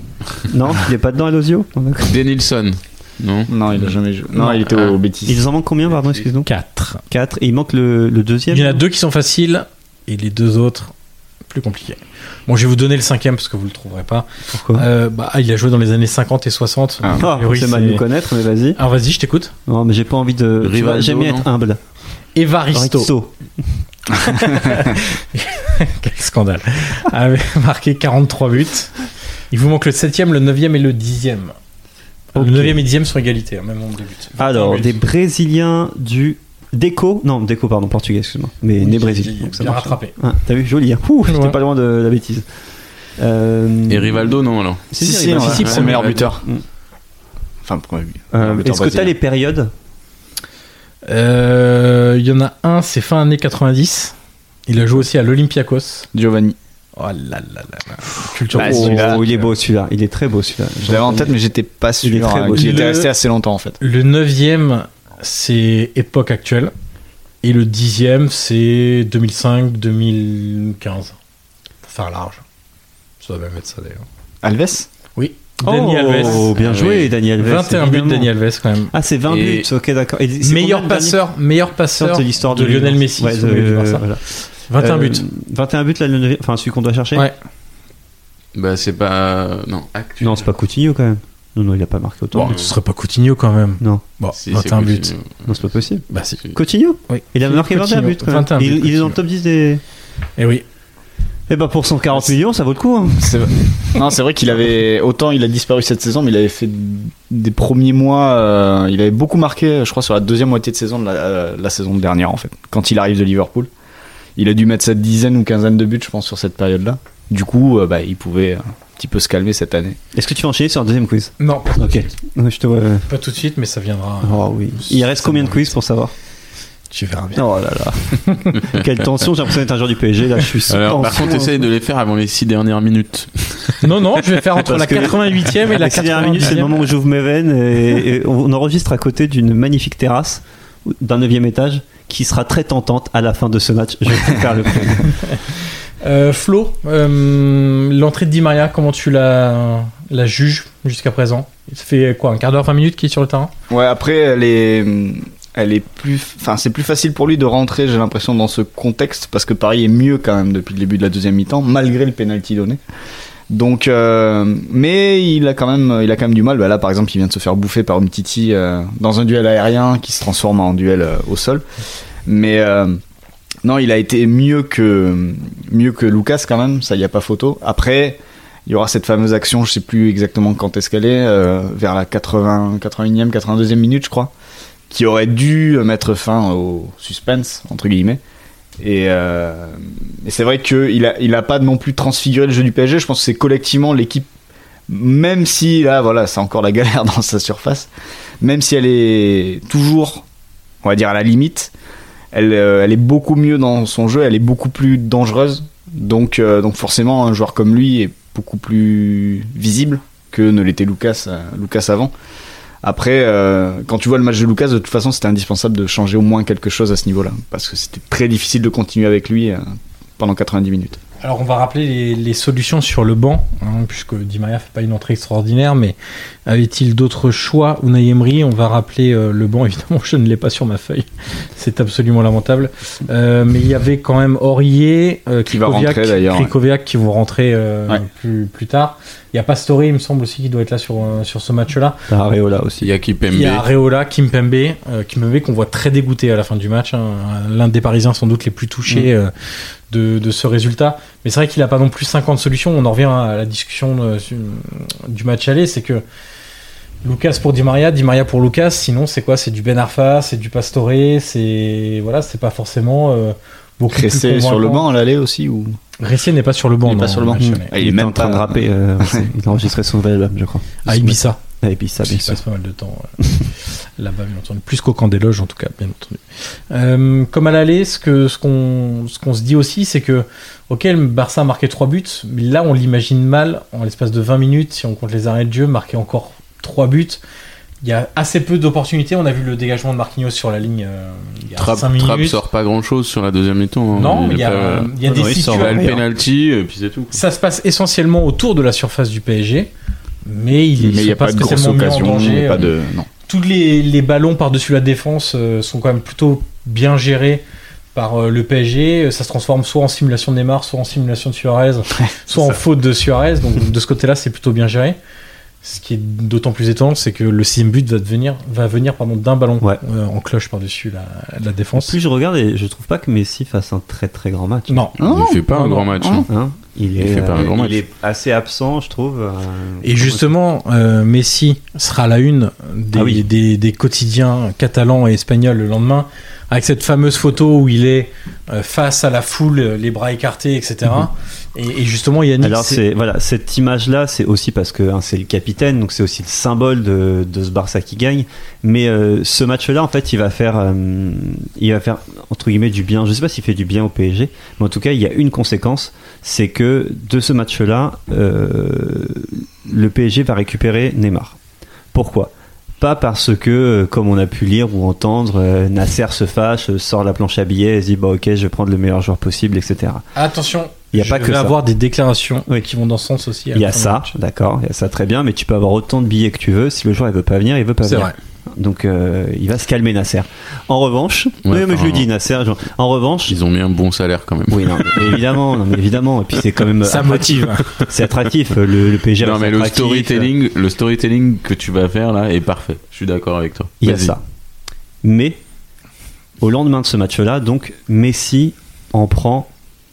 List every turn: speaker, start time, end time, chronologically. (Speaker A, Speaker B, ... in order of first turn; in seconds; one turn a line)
Speaker A: 0.3-2.2
Speaker B: 2.0-3.5
Speaker C: 3.5-5.5
Speaker B: 4.7-5.0
Speaker A: 5.3-6.5
Speaker D: 6.5-7.0
Speaker A: 7.1-8.8
Speaker D: 8.5-10.9
Speaker D: 11.5-18.1
Speaker A: 14.5-14.9
Speaker A: 17.1-18.8
Speaker D: 18.8-19.5
Speaker A: 19.7-21.8
Speaker B: 20.6-21.5
Speaker D: 22.4-23.1
Speaker A: 22.7-23.3
Speaker D: 24.1-28.9
Speaker D: 29.5-31.6
Speaker D: 32.3-35.0
Speaker A: 32.4-32.8
Speaker A: 34.4-42.5
Speaker D: 38.8-40.2
Speaker D: 41.3-41.6
Speaker A: 43.2-44.4
Speaker B: 43.9-46.3
Speaker A: 44.9-46.6
Speaker C: 45.0-46.4
Speaker D: 45.3-46.1
Speaker C: 47.6-49.1
Speaker A: 48.3-49.7
Speaker D: 51.1-54.1
Speaker D: 54.7-56.1
Speaker C: 56.1-56.6
Speaker D: 57.0-59.2
Speaker C: 58.5-59.4
Speaker A: 58.5-61.4
Speaker C: 60.8-63.8
Speaker A: 62.0-62.9
Speaker D: 62.5-63.1
Speaker D: 63.8-66.7
Speaker D: 67.4-71.2
Speaker D: 71.8-72.4
Speaker D: 73.2-74.0
Speaker C: 74.4-74.9
Speaker D: 75.2-76.6
Speaker A: 75.7-78.3
Speaker B: 76.6-77.1
Speaker D: 77.4-78.9
Speaker A: 78.9-81.2
Speaker B: 79.3-79.7
Speaker D: 80.4-84.1
Speaker A: 82.0-84.2
Speaker D: 84.7-85.3
Speaker A: 84.8-87.3
Speaker B: 88.5-90.5
Speaker A: 90.2-92.6
Speaker D: 92.3-95.1
Speaker B: 92.4-92.7
Speaker B: 94.4-95.5
Speaker A: 95.5-99.8
Speaker D: 96.1-96.4
Speaker D: 97.1-99.2
Speaker D: 100.4-100.6
Speaker A: 101.5-103.5
Speaker C: 103.2-113.7
Speaker C: 114.4-120.0
Speaker A: 120.1-123.1
Speaker D: 121.4-122.1
Speaker D: 123.1-125.8
Speaker A: 124.2-126.1
Speaker D: 126.9-127.4
Speaker A: 127.3-131.7
Speaker D: 128.3-128.6
Speaker B: 130.7-133.8
Speaker D: 133.8-136.9
Speaker A: 134.6-145.1
Speaker D: 145.1-145.4
Speaker D: 146.0-153.5
Speaker C: 153.7-162.8
Speaker C: 163.5-171.6
Speaker C: 172.3-173.0
Speaker C: 173.6-184.3
Speaker C: 184.9-188.2
Speaker C: 188.8-194.3
Speaker C: 194.9-197.9
Speaker C: 198.4-200.2
Speaker C: 200.8-201.7
Speaker C: 202.3-212.1
Speaker C: 212.8-219.6
Speaker C: 220.2-221.0
Speaker D: 221.2-242.0
Speaker C: 235.5-236.5
Speaker A: 242.1-242.9
Speaker B: 242.8-243.7
Speaker D: 243.3-249.3
Speaker D: 249.9-256.0
Speaker D: 257.0-264.9
Speaker C: 263.9-265.8
Speaker D: 266.0-267.7
Speaker C: 266.9-269.3
Speaker A: 267.4-272.4
Speaker D: 270.9-271.4
Speaker D: 272.0-273.1
Speaker D: 273.7-287.2
Speaker D: 287.8-292.4
Speaker B: 291.6-297.1
Speaker D: 293.9-296.0
Speaker A: 295.0-296.0
Speaker D: 297.1-299.7
Speaker D: 300.2-302.7
Speaker C: 300.8-303.1
Speaker D: 303.3-307.4
Speaker D: 307.9-315.0
Speaker D: 315.6-322.0
Speaker A: 321.8-324.9
Speaker D: 324.7-325.0
Speaker C: 325.0-325.4
Speaker B: 325.0-326.3
Speaker D: 325.5-325.9
Speaker C: 326.0-326.2
Speaker A: 326.3-330.3
Speaker B: 327.0-327.8
Speaker D: 329.8-342.8
Speaker A: 332.9-333.3
Speaker A: 342.4-361.4
Speaker A: 361.9-370.1
Speaker D: 370.1-374.1
Speaker A: 370.9-371.6
Speaker A: 373.5-383.4
Speaker D: 377.8-378.1
Speaker B: 381.5-382.1
Speaker B: 383.3-385.2
Speaker A: 384.5-390.3
Speaker D: 386.8-387.8
Speaker B: 389.2-394.2
Speaker A: 393.8-394.2
Speaker A: 395.0-395.4
Speaker A: 396.4-399.5